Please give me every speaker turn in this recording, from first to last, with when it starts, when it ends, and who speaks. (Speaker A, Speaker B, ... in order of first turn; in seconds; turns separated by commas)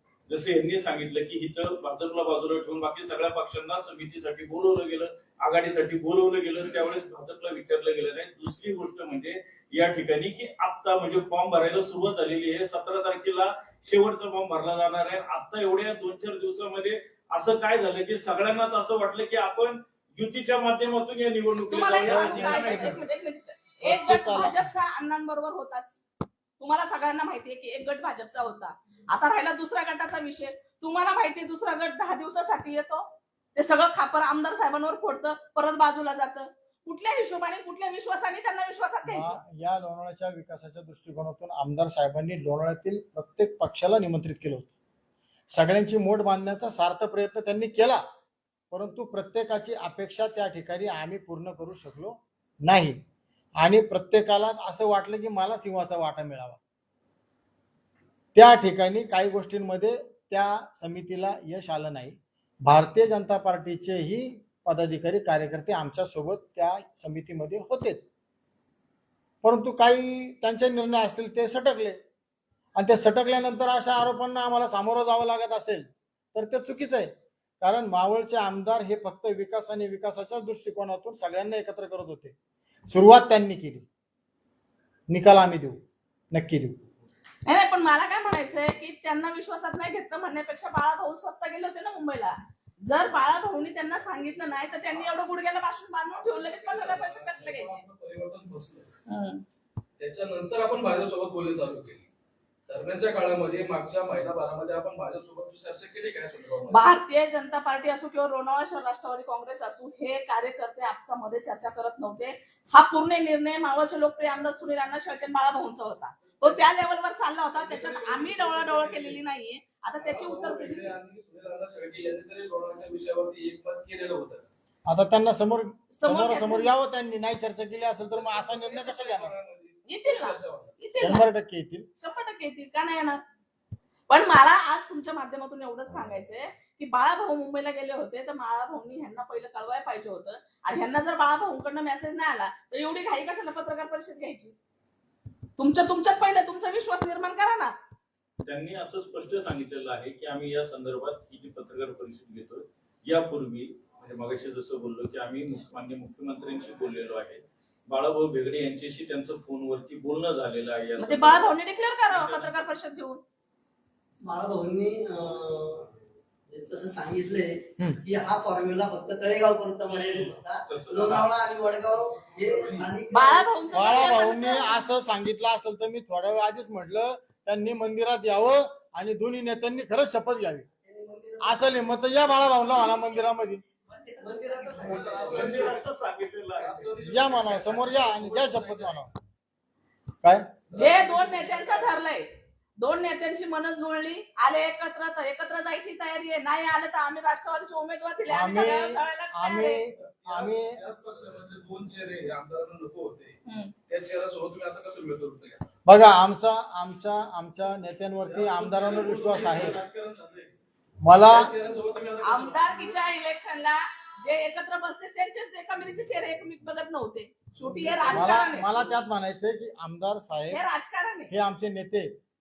Speaker A: 0.3-23.0, Speaker B: 21.7-26.0, Speaker C: 22.1-23.0, Speaker C: 23.8-24.6, Speaker B: 26.6-39.4, Speaker C: 39.0-44.7, Speaker C: 45.5-48.0, Speaker C: 48.7-53.0, Speaker C: 53.6-56.6, Speaker C: 58.3-68.0, Speaker C: 69.4-72.0, Speaker C: 72.8-82.3, Speaker C: 82.9-83.9, Speaker C: 85.1-85.8, Speaker C: 86.3-86.8, Speaker B: 87.5-92.3, Speaker B: 92.9-97.8, Speaker D: 96.2-98.9, Speaker B: 99.1-99.4, Speaker D: 100.0-102.1, Speaker D: 102.7-107.0, Speaker B: 106.7-121.0, Speaker D: 117.5-119.2, Speaker D: 120.0-124.5, Speaker C: 124.9-129.3, Speaker B: 125.9-126.7, Speaker D: 128.1-130.7, Speaker B: 129.9-131.2, Speaker C: 131.0-131.9, Speaker B: 132.0-133.2, Speaker B: 134.1-144.5, Speaker B: 145.6-147.7, Speaker A: 148.4-161.6, Speaker B: 161.0-163.2, Speaker A: 162.1-162.6, Speaker E: 164.2-165.9, Speaker E: 166.5-173.7, Speaker A: 169.9-171.3, Speaker B: 173.1-174.8, Speaker C: 173.7-180.7, Speaker E: 180.8-182.5, Speaker C: 181.4-183.6, Speaker E: 183.9-185.9, Speaker D: 184.7-185.9, Speaker A: 185.2-186.8, Speaker D: 186.6-189.1, Speaker C: 187.1-189.1, Speaker C: 190.2-190.5, Speaker D: 190.7-191.9, Speaker B: 190.7-192.3, Speaker B: 192.8-199.8, Speaker C: 198.3-200.8, Speaker D: 200.2-203.4, Speaker B: 203.4-203.7, Speaker D: 203.9-205.6, Speaker C: 205.9-209.8, Speaker D: 208.2-210.5, Speaker C: 211.0-211.5, Speaker D: 211.2-212.9, Speaker B: 212.2-218.8, Speaker D: 217.6-218.7, Speaker C: 218.1-220.6, Speaker B: 220.5-221.3, Speaker C: 221.3-222.1